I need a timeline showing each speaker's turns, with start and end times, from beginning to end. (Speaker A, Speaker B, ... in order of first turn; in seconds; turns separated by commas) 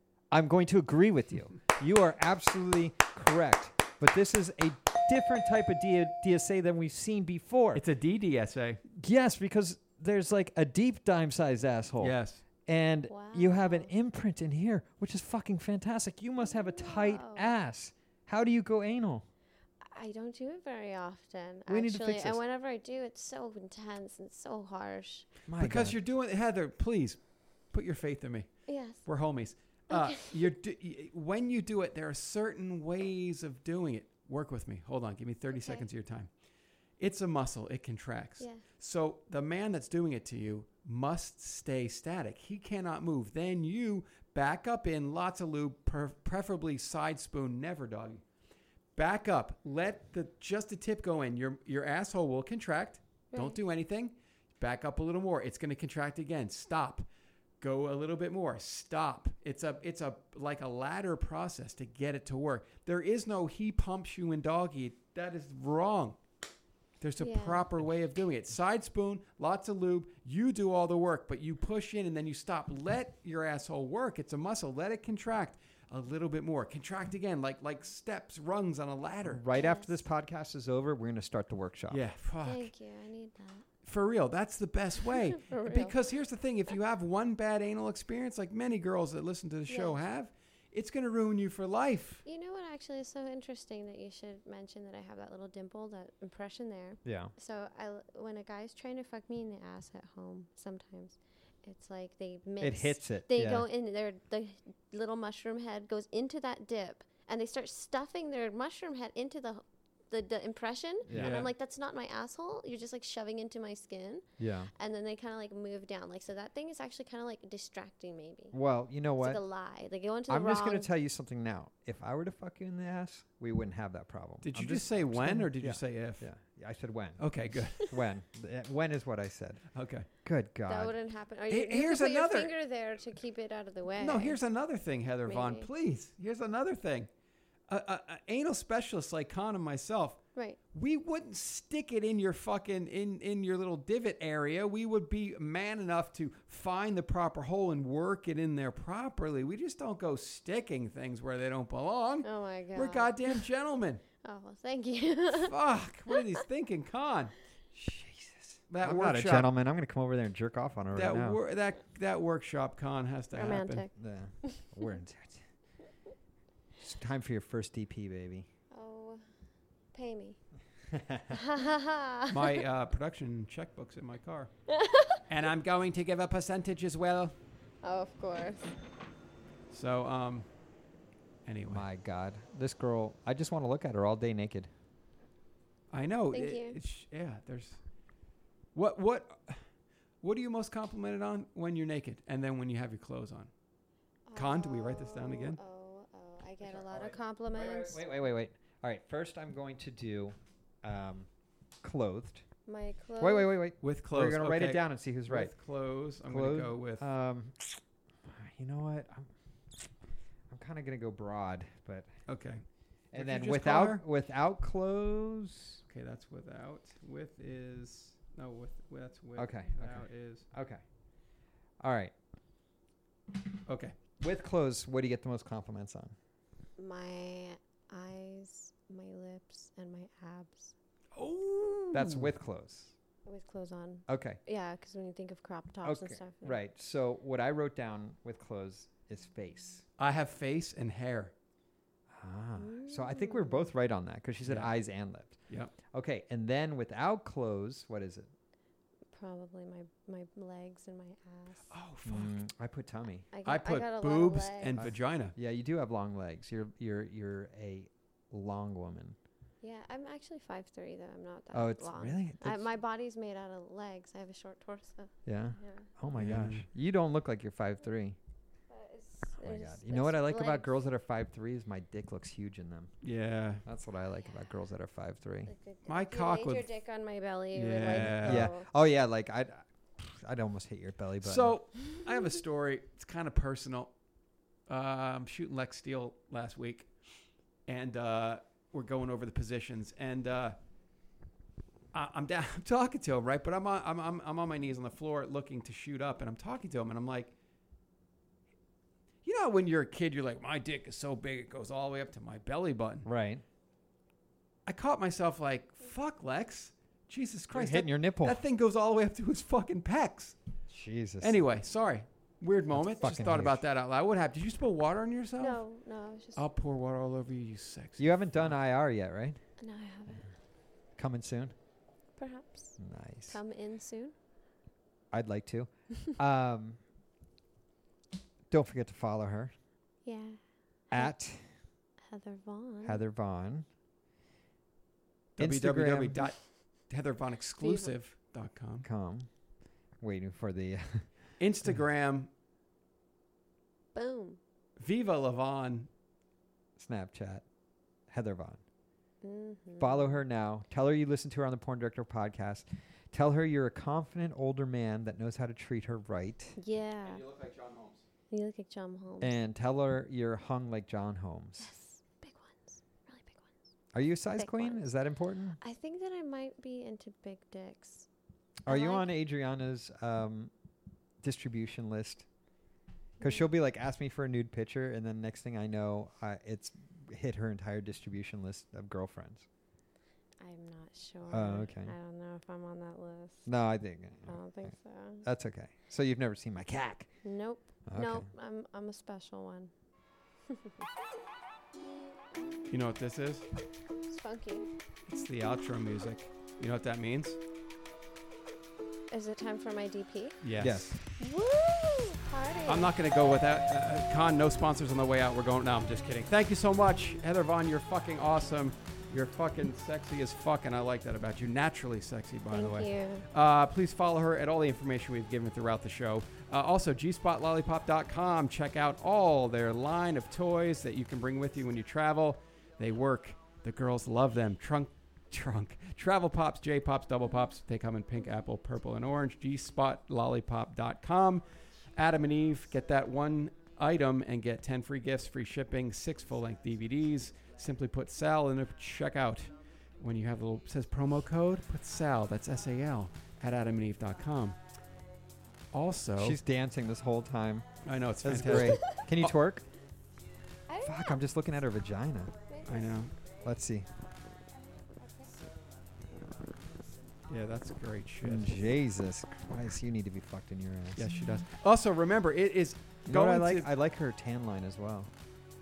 Speaker A: 0.3-7.8, Speaker B: 7.7-8.8, Speaker A: 8.9-19.3, Speaker B: 12.0-12.4, Speaker C: 13.1-13.9, Speaker C: 16.4-17.5, Speaker C: 19.8-25.3, Speaker A: 21.7-22.4, Speaker A: 25.4-26.0, Speaker B: 25.6-27.2, Speaker B: 27.7-36.3, Speaker C: 28.7-29.0, Speaker C: 29.9-30.4, Speaker C: 35.5-35.9, Speaker B: 37.0-48.2, Speaker B: 49.0-57.0, Speaker C: 53.3-53.6, Speaker B: 57.6-66.2, Speaker B: 67.0-79.4, Speaker C: 67.2-67.6, Speaker A: 79.2-82.0, Speaker C: 79.5-80.0, Speaker B: 81.9-82.7, Speaker C: 82.4-83.7, Speaker B: 83.8-92.2, Speaker C: 85.5-86.0, Speaker C: 89.7-90.0, Speaker C: 92.2-114.2, Speaker A: 97.0-97.3, Speaker A: 102.6-103.7, Speaker A: 111.1-111.4, Speaker B: 111.1-111.5, Speaker A: 114.4-114.7, Speaker C: 114.8-118.6, Speaker A: 118.5-119.4, Speaker C: 119.2-120.9, Speaker A: 120.3-129.6, Speaker B: 124.4-126.3, Speaker B: 127.2-127.9, Speaker B: 129.7-130.1, Speaker A: 130.2-130.9, Speaker C: 130.7-134.4, Speaker B: 131.5-132.5, Speaker B: 133.9-137.1, Speaker C: 135.2-135.7, Speaker B: 137.7-140.2, Speaker B: 140.7-154.0, Speaker C: 152.2-153.4, Speaker C: 154.2-155.5, Speaker B: 155.3-157.3, Speaker A: 157.7-161.4, Speaker B: 158.7-159.5, Speaker B: 160.9-163.8, Speaker C: 163.3-163.9, Speaker A: 163.9-165.4, Speaker A: 166.8-168.5, Speaker C: 168.7-169.2, Speaker C: 169.9-170.4, Speaker A: 170.9-171.4, Speaker C: 171.3-172.6, Speaker B: 172.3-174.5, Speaker C: 174.7-175.2, Speaker B: 175.3-177.3, Speaker C: 177.8-178.7, Speaker B: 179.7-180.5, Speaker B: 181.4-181.8, Speaker A: 181.7-184.7, Speaker B: 185.9-187.8, Speaker C: 186.3-186.8, Speaker B: 188.7-189.6, Speaker B: 190.2-193.5, Speaker C: 194.3-198.0, Speaker B: 194.3-195.6, Speaker A: 196.6-201.3, Speaker A: 201.8-202.4, Speaker C: 202.7-203.5, Speaker A: 203.2-205.5, Speaker B: 203.8-207.0, Speaker A: 206.2-209.9, Speaker A: 210.5-212.1, Speaker B: 212.3-214.0, Speaker A: 213.1-215.8, Speaker B: 215.9-220.4, Speaker A: 219.3-220.8, Speaker A: 221.8-222.1, Speaker B: 223.7-223.9, Speaker A: 224.2-226.1, Speaker C: 226.8-230.7, Speaker B: 231.1-232.3, Speaker A: 231.9-232.9, Speaker C: 233.2-236.6, Speaker A: 234.1-234.4, Speaker A: 235.8-239.8, Speaker B: 240.0-241.3, Speaker A: 242.1-245.4, Speaker C: 242.6-243.7, Speaker B: 244.4-244.7, Speaker A: 245.9-248.3, Speaker C: 249.1-251.7, Speaker B: 251.7-252.4, Speaker A: 252.0-253.3, Speaker C: 253.3-254.8, Speaker B: 253.4-255.3, Speaker A: 254.7-259.2, Speaker C: 259.6-265.9, Speaker A: 261.5-262.7, Speaker A: 265.2-268.2, Speaker B: 266.1-266.7, Speaker C: 268.7-270.7, Speaker A: 269.4-272.9, Speaker B: 273.0-273.6, Speaker A: 273.6-275.5, Speaker C: 275.4-278.7, Speaker B: 275.8-276.6, Speaker B: 277.5-278.5, Speaker A: 278.0-281.6, Speaker B: 281.2-283.9, Speaker B: 284.7-286.9, Speaker B: 287.7-290.6, Speaker B: 291.9-297.3, Speaker B: 299.2-303.1, Speaker A: 303.0-303.4, Speaker B: 304.7-310.4, Speaker A: 307.5-308.4, Speaker A: 310.7-311.4, Speaker B: 311.2-315.6, Speaker C: 312.7-313.0, Speaker A: 312.7-313.6, Speaker C: 315.4-316.4, Speaker B: 316.4-318.1, Speaker A: 318.0-319.4, Speaker C: 319.6-320.3, Speaker A: 320.9-321.5, Speaker C: 322.2-324.1, Speaker A: 322.8-323.4, Speaker A: 325.1-326.8, Speaker A: 328.5-329.5, Speaker C: 330.0-331.1, Speaker A: 330.9-331.4, Speaker C: 332.0-333.0, Speaker A: 332.8-333.7, Speaker B: 335.4-336.4, Speaker A: 335.4-336.3, Speaker B: 336.9-338.9, Speaker C: 337.6-337.9, Speaker A: 338.8-339.3, Speaker A: 340.0-341.1, Speaker B: 341.4-342.3, Speaker C: 343.9-344.4, Speaker B: 344.8-345.9, Speaker A: 346.8-347.4, Speaker A: 348.1-348.6, Speaker C: 349.2-350.2, Speaker A: 349.8-356.6, Speaker C: 356.6-357.2, Speaker B: 357.0-358.0, Speaker C: 358.3-359.4, Speaker A: 359.2-361.7, Speaker C: 361.6-363.5, Speaker A: 363.9-365.6, Speaker C: 364.4-364.9, Speaker C: 365.6-368.1, Speaker A: 368.6-370.5, Speaker C: 368.7-369.1, Speaker A: 371.2-372.3, Speaker C: 373.2-373.5, Speaker A: 373.2-379.5, Speaker C: 380.4-383.5, Speaker A: 381.3-381.9, Speaker A: 383.4-387.1, Speaker C: 384.3-385.2, Speaker C: 387.2-389.7, Speaker A: 387.9-388.3, Speaker C: 390.5-390.9, Speaker C: 392.3-392.6, Speaker B: 392.7-393.4, Speaker C: 394.1-394.7, Speaker B: 395.1-397.4, Speaker C: 399.1-400.4, Speaker B: 400.4-401.0, Speaker A: 400.6-401.0, Speaker C: 401.2-402.9, Speaker B: 402.7-431.4, Speaker C: 412.5-413.2, Speaker B: 431.9-444.6, Speaker B: 445.7-446.4, Speaker A: 446.2-447.6, Speaker B: 447.8-449.3, Speaker A: 448.2-449.6, Speaker C: 450.7-451.2, Speaker A: 450.8-452.3, Speaker C: 452.5-452.9, Speaker B: 452.6-453.1, Speaker A: 453.4-453.9, Speaker C: 454.8-455.4, Speaker B: 457.3-458.7, Speaker A: 458.2-461.4, Speaker B: 460.9-463.7, Speaker A: 463.1-465.1